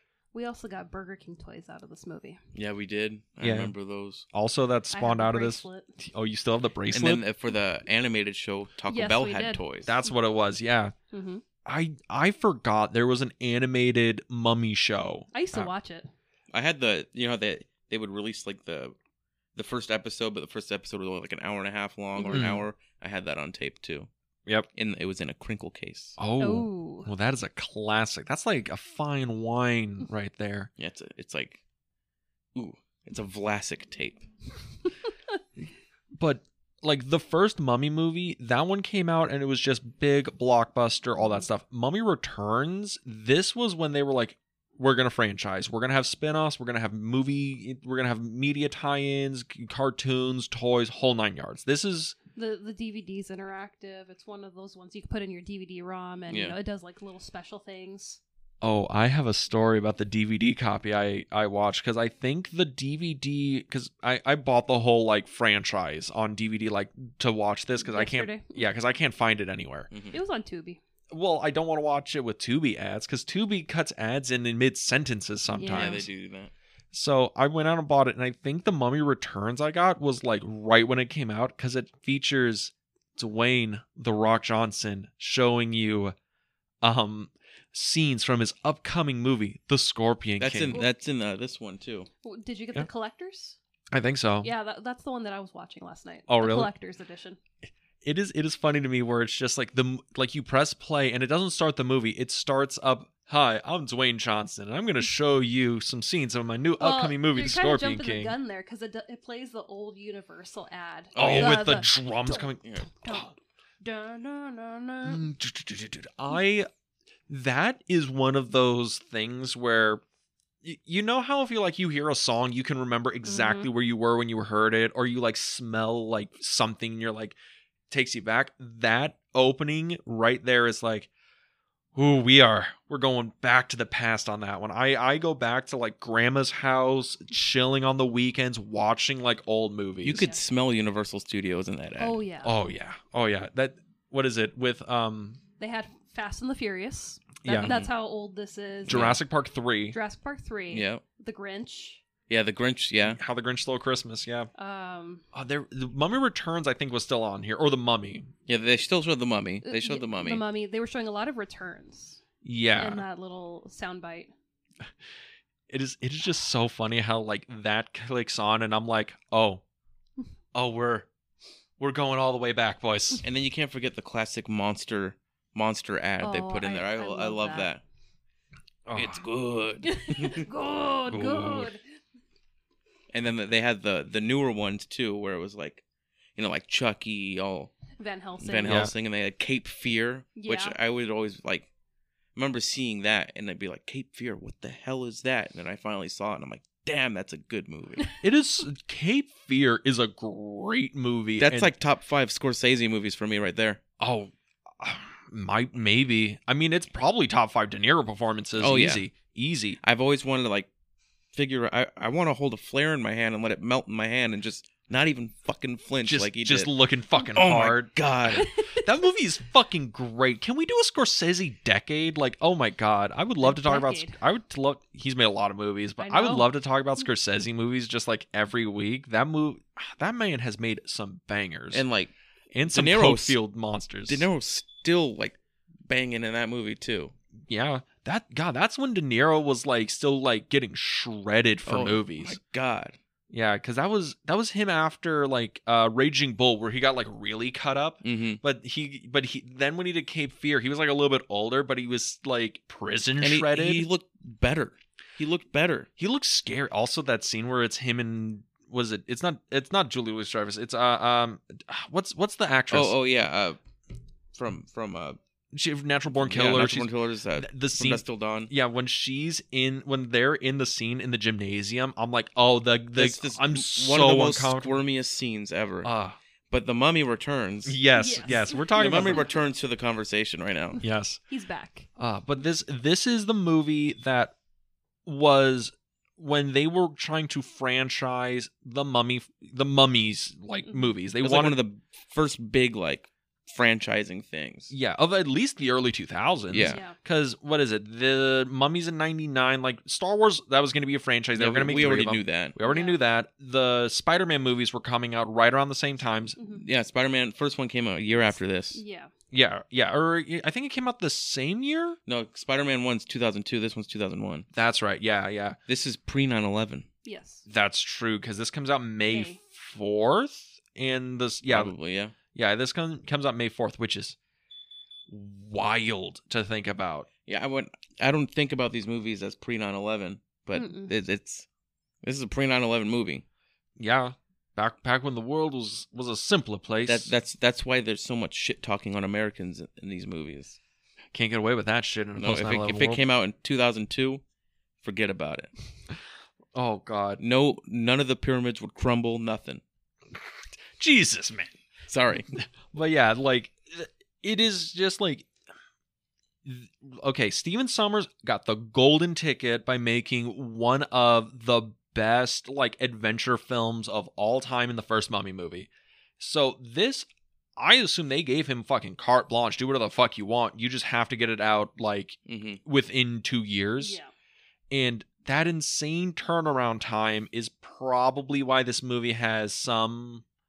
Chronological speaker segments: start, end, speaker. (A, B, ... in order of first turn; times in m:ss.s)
0:00.3-0:02.4 A
0:02.5-0:04.2 B
0:03.4-0:03.7 C
0:04.3-0:07.2 C
0:04.9-0:06.0 A
0:06.9-0:09.9 B
0:08.9-0:09.6 A
0:09.8-0:10.9 C
0:11.1-0:11.4 A
0:11.6-0:15.7 C
0:15.3-0:16.1 A
0:16.5-0:18.9 B
0:19.5-0:24.1 B
0:22.2-0:22.5 A
0:22.3-0:22.6 C
0:24.7-0:26.2 B
0:26.2-0:30.7 C
0:26.4-0:27.1 A
0:30.8-0:31.6 B
0:32.5-0:34.2 B
0:36.2-0:52.2 C
0:52.4-0:58.2 A
0:56.3-0:56.5 B
0:58.6-1:09.9 C
1:07.8-1:08.7 A
1:10.1-1:10.8 A
1:11.1-1:16.1 C
1:15.5-1:16.1 A
1:15.6-1:16.5 B
1:16.9-1:26.1 C
1:26.8-1:30.8 C
1:30.4-1:32.1 B
1:32.2-1:33.6 A
1:33.9-1:34.5 C
1:34.4-1:37.4 A
1:36.3-1:36.7 C
1:38.0-1:48.3 C
1:46.8-1:55.3 A
1:51.1-1:51.7 B
1:51.2-1:53.3 C
1:55.0-1:56.7 C
1:57.3-2:00.0 C
2:00.6-2:07.4 C
2:03.2-2:03.7 A
2:07.9-2:11.1 C
2:11.9-2:20.2 C
2:20.0-2:22.2 B
2:20.1-2:20.4 A
2:22.0-2:22.5 A
2:22.4-2:25.4 C
2:25.6-2:29.0 A
2:27.4-2:27.7 C
2:27.6-2:27.9 B
2:28.8-2:30.0 C
2:28.9-2:29.2 B
2:29.9-2:32.0 A
2:30.7-2:31.0 B
2:32.3-2:33.2 B
2:33.0-2:34.5 C
2:34.6-2:35.2 A
2:35.3-2:38.3 C
2:38.5-2:40.4 B
2:39.6-2:42.2 A
2:42.4-2:43.0 C
2:42.8-2:44.3 A
2:45.7-2:49.6 C
2:50.5-2:51.1 C
2:51.8-2:53.2 C
2:53.2-2:57.8 B
2:56.2-2:57.7 A
2:58.8-2:59.2 C
2:58.9-3:00.5 B
2:59.8-3:01.8 A
3:01.1-3:01.7 C
3:03.1-3:05.8 B
3:06.4-3:07.7 B
3:08.0-3:08.8 A
3:08.4-3:11.7 B
3:08.6-3:08.9 C
3:10.4-3:10.8 A
3:12.3-3:18.1 B
3:18.2-3:21.7 C
3:21.4-3:23.8 B
3:24.0-3:29.8 C
3:28.6-3:29.0 B
3:29.8-3:30.7 B
3:31.3-3:36.7 B
3:36.0-3:51.8 C
3:37.3-3:38.5 B
3:38.4-3:38.8 A
3:43.4-3:44.2 A
3:46.0-3:46.5 A
3:51.7-3:52.1 B
3:52.5-3:54.3 C
3:52.7-3:53.4 B
3:54.1-3:57.1 B
3:57.5-4:02.4 C
4:01.6-4:03.0 B
4:03.3-4:13.9 C
4:08.0-4:08.4 B
4:13.2-4:15.9 B
4:16.0-4:22.9 C
4:22.7-4:23.6 B
4:24.3-4:25.2 B
4:25.5-4:34.8 C
4:26.2-4:28.5 B
4:32.9-4:35.9 B
4:35.8-4:36.2 C
4:36.5-4:37.8 B
4:37.6-4:39.3 C
4:37.9-4:39.4 A
4:38.8-4:40.8 B
4:40.8-4:41.2 C
4:41.3-4:41.9 A
4:42.0-4:44.3 C
4:45.0-4:51.6 C
4:51.2-4:54.7 B
4:54.7-5:06.4 C
4:56.5-4:56.8 B
4:56.7-4:57.0 A
5:01.3-5:02.5 B
5:02.6-5:03.0 A
5:06.4-5:06.6 A
5:06.5-5:08.8 B
5:08.7-5:09.1 A
5:09.3-5:12.0 C
5:12.1-5:14.4 B
5:14.5-5:15.6 C
5:15.7-5:16.8 B
5:17.0-5:17.4 A
5:17.5-5:21.7 C
5:19.1-5:19.4 A
5:21.5-5:22.1 B
5:22.3-5:24.2 C
5:25.1-5:27.1 C
5:27.2-5:31.4 B
5:30.5-5:30.9 A
5:32.0-5:33.2 B
5:33.8-5:37.1 C
5:36.8-5:40.6 B
5:41.1-5:43.0 C
5:42.2-5:44.2 B
5:44.8-5:45.5 B
5:46.5-5:47.2 C
5:47.2-5:49.6 B
5:50.8-5:51.6 C
5:51.9-5:52.3 B
5:52.3-5:55.3 C
5:56.4-6:14.0 C
6:12.2-6:12.6 B
6:13.8-6:14.1 A
6:14.7-6:20.2 C